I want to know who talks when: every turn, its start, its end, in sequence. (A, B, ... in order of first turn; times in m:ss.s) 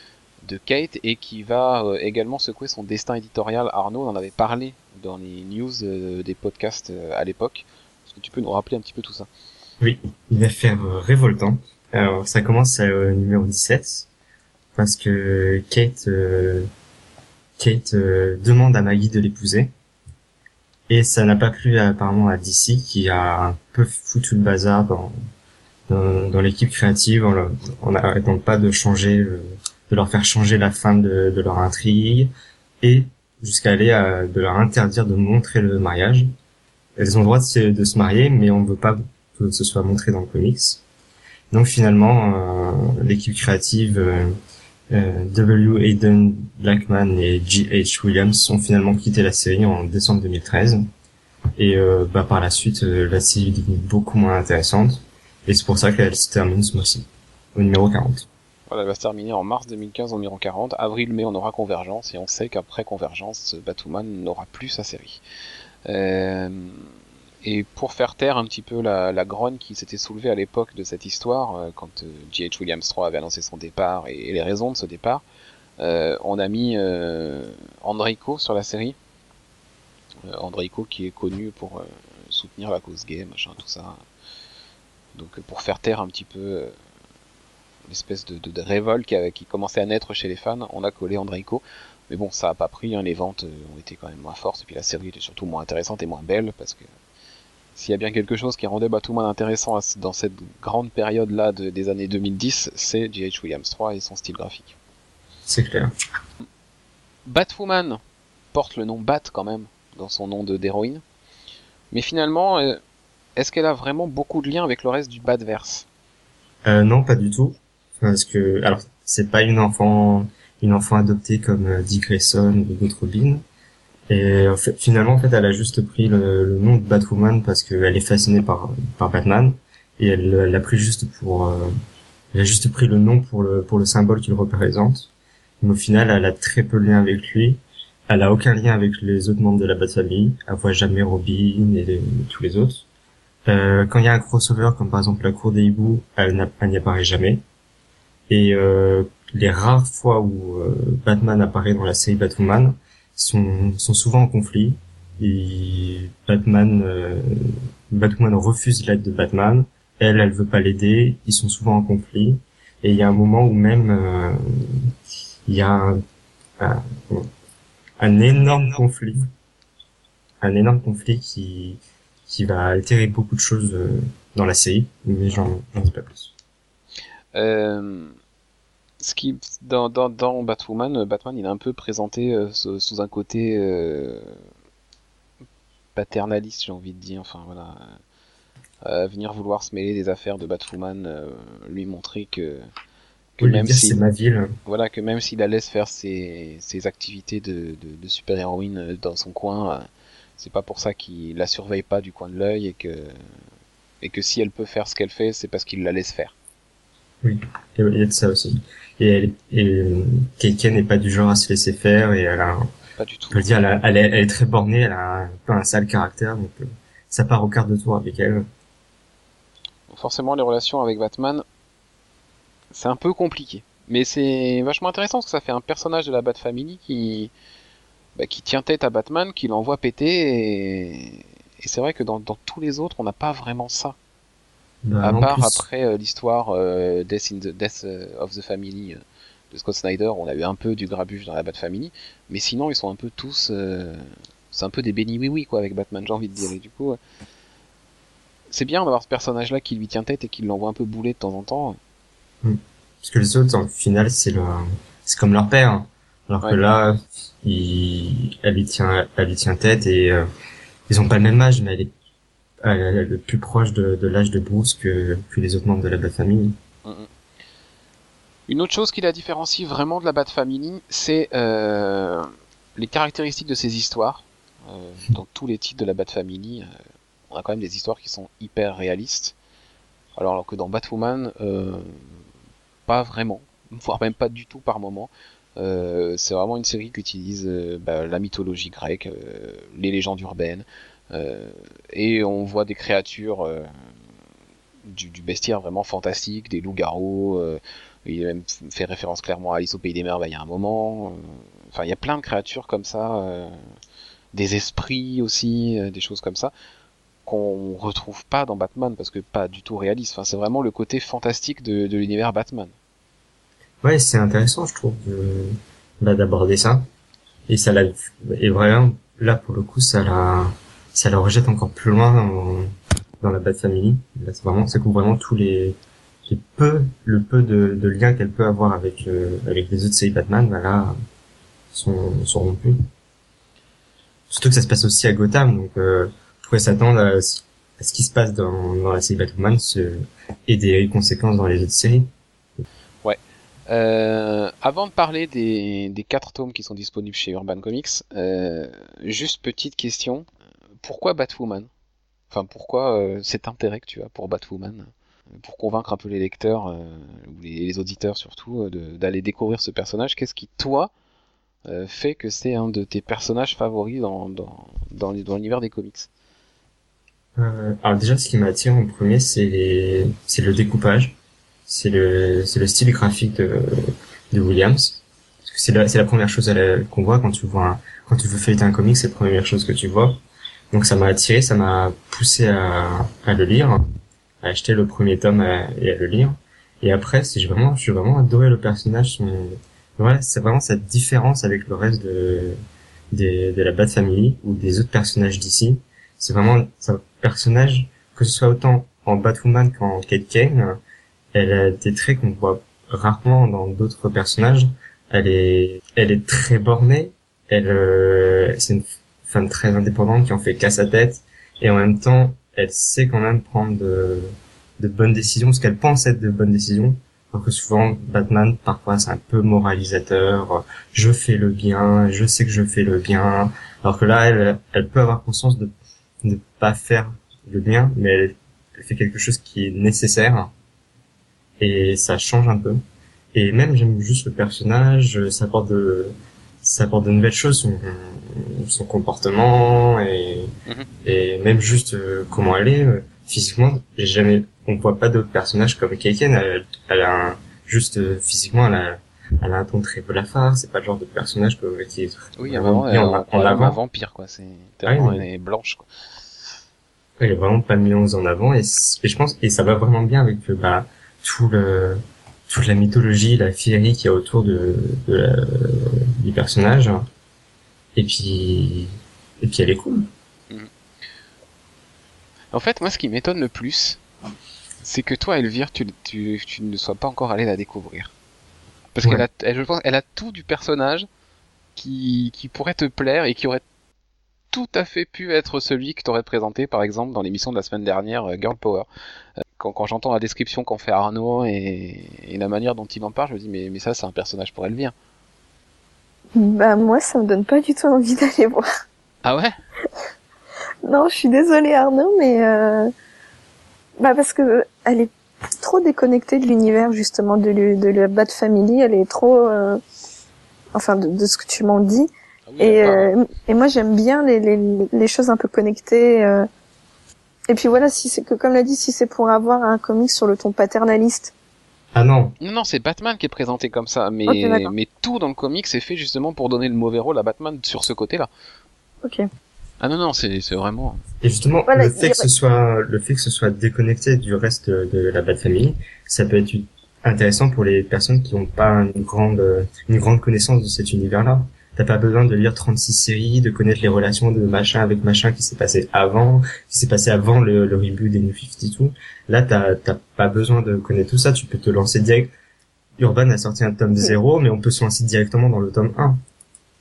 0:00.4-0:09.3 A
0:09.8-0:14.1 B
0:14.8-0:16.7 B
0:17.6-0:19.7 B
0:20.9-0:25.1 B
0:25.9-0:32.3 B
0:32.8-0:36.3 B
0:37.0-0:40.8 B
0:41.5-0:44.3 B
0:44.9-0:50.8 B
0:51.6-0:58.3 B
0:58.7-1:05.2 A
1:05.8-1:06.9 A
1:07.4-1:15.2 A
1:15.8-1:19.0 A
1:20.3-1:24.0 A
1:25.1-1:26.7 A
1:27.9-1:36.8 A
1:37.8-1:44.7 A
1:45.5-1:45.9 B
1:47.2-1:48.0 A
1:48.5-1:51.0 A
1:51.9-1:52.8 A
1:53.4-1:55.8 A
1:56.7-2:03.4 B
2:04.1-2:11.7 B
2:12.3-2:15.1 B
2:15.6-2:22.8 B
2:23.5-2:27.4 B
2:28.3-2:44.9 B
2:45.5-2:46.0 B
2:46.6-2:47.3 B
2:48.0-2:49.3 B
2:50.4-2:56.3 B
2:57.3-2:58.1 A
2:59.0-3:04.4 A
3:05.9-3:08.0 A
3:08.8-3:12.7 A
3:13.4-3:14.0 A
3:13.4-3:14.5 B
3:14.6-3:19.9 A
3:20.4-3:23.2 A
3:24.0-3:26.3 A
3:27.2-3:32.7 B
3:33.0-3:33.4 A
3:33.3-3:38.4 B
3:39.9-3:41.4 A
3:42.7-3:47.3 A
3:48.2-3:54.0 A
3:54.8-3:55.6 B
3:55.0-3:59.0 A
3:59.5-4:07.0 A
4:08.5-4:11.8 A
4:12.4-4:20.2 B
4:20.9-4:21.9 B
4:22.6-4:26.6 B
4:28.5-4:36.7 A
4:37.3-4:39.3 A
4:40.2-4:42.0 A
4:42.9-4:53.7 A
4:54.8-5:03.6 A
5:04.3-5:06.5 A
5:07.2-5:12.7 A
5:13.8-5:16.8 B
5:17.5-5:30.9 B
5:31.7-5:32.8 B
5:34.3-5:42.1 B
5:43.0-5:50.2 A
5:50.8-5:51.7 A
5:52.3-6:00.9 A
6:01.6-6:06.1 A
6:07.4-6:11.2 B
6:11.7-6:20.2 B
6:20.7-6:23.8 B
6:24.4-6:32.6 B
6:33.1-6:40.8 B
6:41.3-7:05.7 B
7:06.2-7:10.5 B
7:11.6-7:12.8 B
7:13.3-7:20.5 B
7:21.0-7:33.8 B
7:32.4-7:35.8 A
7:34.8-7:35.2 B
7:37.2-7:47.0 B
7:48.0-7:50.1 B
7:52.5-7:54.0 A
7:54.8-7:58.1 A
7:58.9-8:01.1 A
8:01.8-8:03.6 A
8:04.5-8:08.9 A
8:09.6-8:14.9 A
8:16.4-8:18.7 C
8:19.2-8:19.5 A
8:20.8-8:22.9 C
8:24.0-8:29.8 C
8:30.7-8:36.5 C
8:32.5-8:33.1 A
8:37.5-8:41.3 C
8:41.9-8:42.4 B
8:42.4-8:48.3 A
8:44.3-8:44.7 C
8:49.8-8:51.0 A
8:51.2-9:12.3 B
8:51.7-8:52.3 C
9:13.0-9:16.2 B